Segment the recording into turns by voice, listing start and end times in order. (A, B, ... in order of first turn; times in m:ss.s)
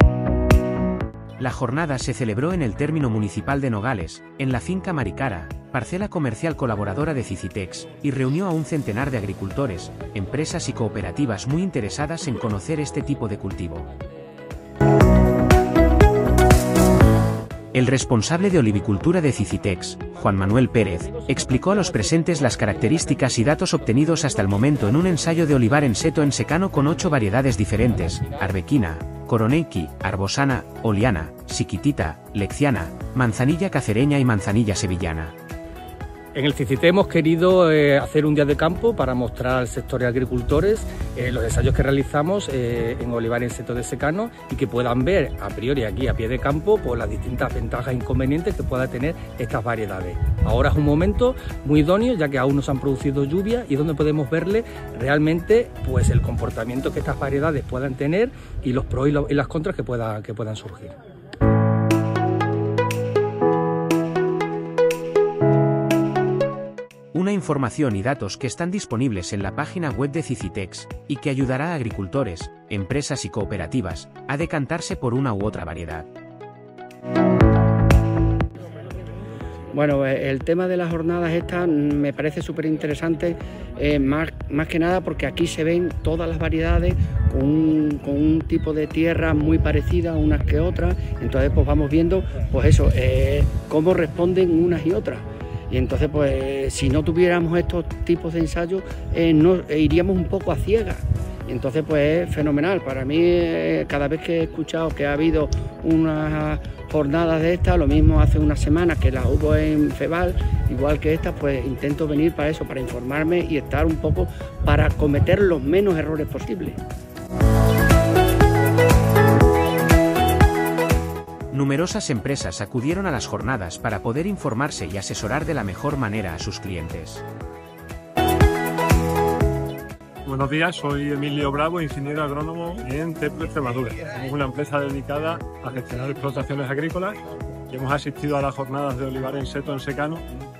0:01.4-0:13.9 A
0:17.7-0:35.3 A
0:21.0-0:25.3 B
0:27.9-0:28.5 B
0:36.4-1:01.0 B
1:07.1-1:16.1 A
1:19.7-1:56.8 C
2:01.5-2:07.2 A
2:10.2-2:17.2 D
2:17.7-2:20.2 D